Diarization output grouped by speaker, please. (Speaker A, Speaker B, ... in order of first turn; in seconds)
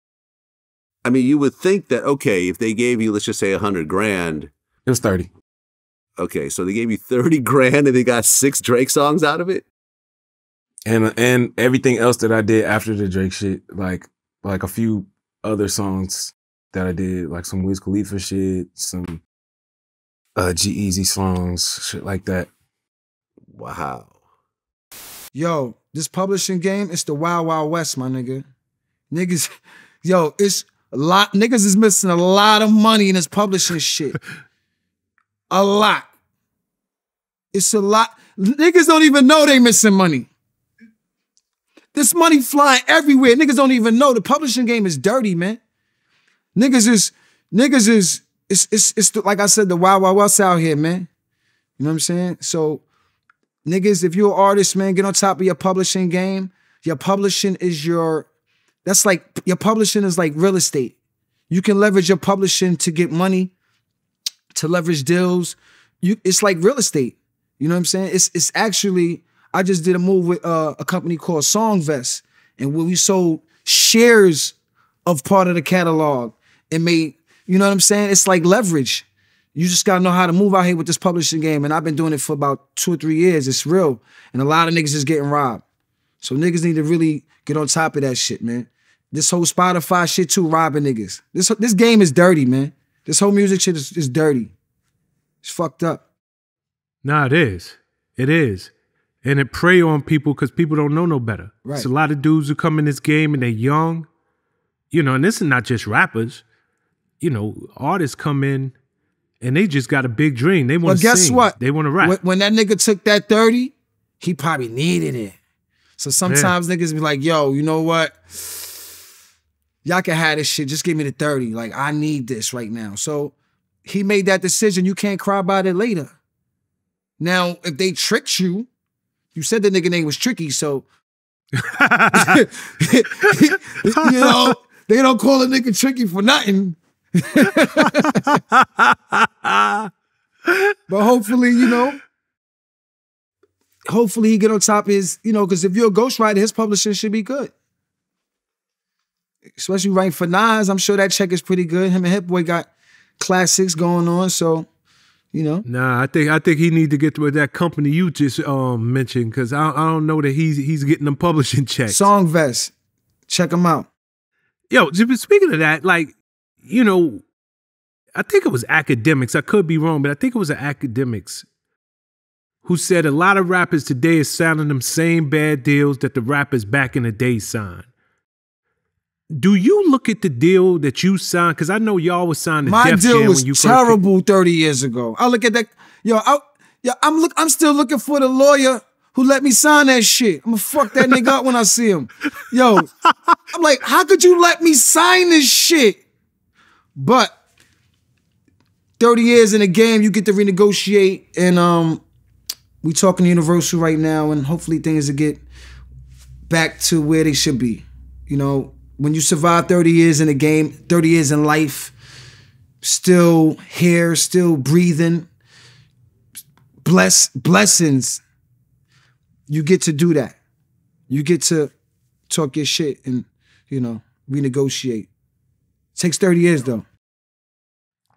Speaker A: 1.0-4.5, 6.2-9.6, 23.5-24.1
Speaker B: 4.8-5.3, 10.8-19.2, 20.4-22.5
Speaker C: 25.3-28.4, 29.1-29.5, 30.0-34.2, 35.5-36.1, 37.5-40.3, 41.9-45.6, 46.5-51.1, 51.8-52.8, 53.6-58.3, 58.8-60.9, 61.5-63.5, 64.5-74.5, 75.0-85.6, 86.2-94.5, 95.4-96.0, 101.6-101.9, 110.8-115.3, 116.0-118.7, 119.8-123.3, 123.8-126.1, 127.2-128.7, 129.3-130.8, 132.1-138.4, 140.9-142.0, 143.9-147.5, 149.6-152.7, 153.2-154.7, 155.3-155.6, 161.9-162.7, 163.3-163.9, 182.6-192.9, 193.5-196.0, 196.9-197.3, 199.0-202.0, 202.8-205.4, 206.5-211.9, 212.8-215.3, 216.8-218.2, 219.5-220.3, 221.1-221.7, 222.3-225.1, 225.9-226.8
Speaker D: 97.0-98.7, 99.2-104.1, 104.9-106.4, 107.2-108.7, 109.4-112.2, 116.2-116.5, 131.6-132.4, 134.0-134.5, 137.4-139.9, 140.5-140.8, 155.6-162.1, 164.7-167.2, 168.1-171.4, 172.6-177.8, 179.3-184.0